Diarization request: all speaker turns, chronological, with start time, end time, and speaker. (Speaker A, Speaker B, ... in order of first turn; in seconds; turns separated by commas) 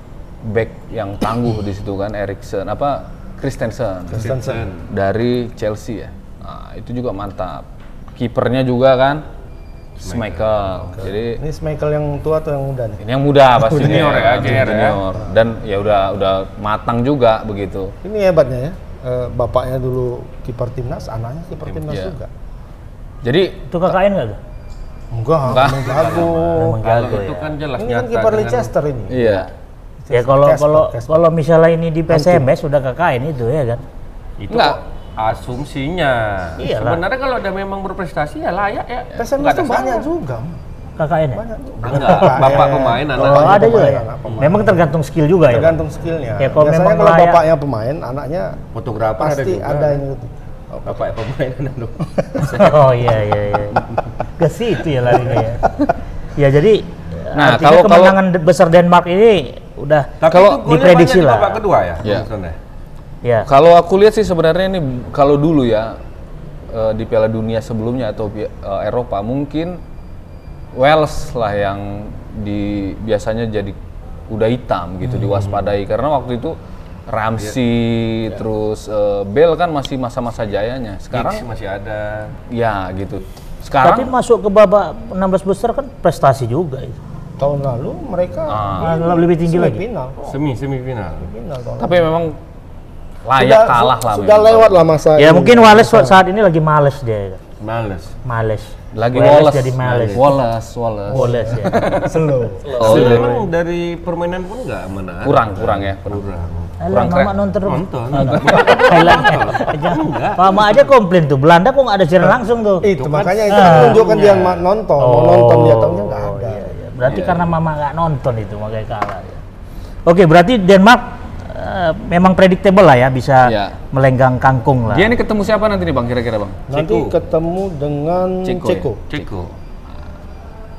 Speaker A: 0.4-4.2, Speaker B: 4.1-4.7, Speaker C: 4.1-4.8, Speaker A: 4.8-9.2, Speaker A: 10.0-11.4, Speaker C: 10.0-10.5, Speaker B: 11.0-13.0, Speaker A: 13.0-17.9, Speaker C: 13.6-15.0, Speaker B: 13.6-14.3, Speaker B: 18.0-22.3, Speaker A: 21.9-22.1, Speaker A: 23.2-24.0, Speaker D: 23.7-24.4, Speaker B: 25.1-26.8, Speaker A: 25.4-26.4, Speaker C: 25.6-28.7, Speaker D: 26.5-27.5, Speaker B: 27.8-29.4, Speaker A: 29.1-29.5, Speaker B: 30.0-31.2, Speaker D: 30.1-33.8, Speaker B: 32.1-32.5, Speaker C: 34.4-40.0, Speaker A: 34.5-34.8, Speaker D: 36.6-37.0, Speaker B: 39.1-40.6, Speaker D: 41.0-41.4, Speaker B: 41.3-44.9, Speaker C: 41.8-43.7, Speaker D: 43.1-45.8, Speaker B: 45.5-48.6, Speaker D: 46.4-47.4, Speaker C: 48.7-50.0, Speaker B: 49.2-51.0, Speaker C: 50.8-52.7, Speaker B: 52.2-52.7, Speaker D: 52.5-53.8, Speaker D: 54.4-55.7, Speaker D: 56.4-61.6, Speaker A: 57.3-58.2, Speaker C: 60.2-62.5, Speaker A: 60.3-60.6, Speaker A: 63.5-66.0, Speaker A: 66.7-69.8, Speaker A: 70.7-73.8, Speaker A: 74.3-76.5, Speaker C: 75.2-75.6, Speaker A: 77.1-81.4, Speaker C: 81.1-82.3, Speaker A: 82.5-84.1, Speaker D: 83.8-87.0, Speaker B: 87.4-90.4, Speaker A: 88.5-88.9, Speaker D: 88.8-89.8, Speaker C: 90.2-91.3, Speaker B: 91.2-92.1, Speaker A: 91.8-92.4, Speaker A: 93.2-94.8, Speaker B: 93.3-96.2, Speaker D: 95.2-97.4, Speaker C: 97.6-98.1, Speaker D: 98.2-100.3, Speaker A: 98.9-103.3, Speaker C: 99.8-100.3, Speaker D: 101.1-101.9, Speaker B: 101.1-102.7, Speaker C: 102.8-106.8, Speaker D: 102.8-103.5, Speaker A: 105.2-106.2, Speaker D: 106.8-112.9, Speaker A: 106.9-107.3, Speaker C: 107.6-110.8, Speaker A: 108.2-108.8, Speaker B: 112.8-116.7, Speaker C: 112.9-114.6, Speaker D: 113.5-114.0, Speaker D: 115.0-119.4, Speaker C: 117.0-117.3, Speaker A: 117.1-117.4, Speaker D: 120.0-125.2, Speaker A: 123.4-123.8, Speaker A: 124.9-126.6, Speaker B: 126.7-129.0, Speaker C: 126.7-127.1, Speaker A: 128.4-129.2, Speaker C: 129.1-129.5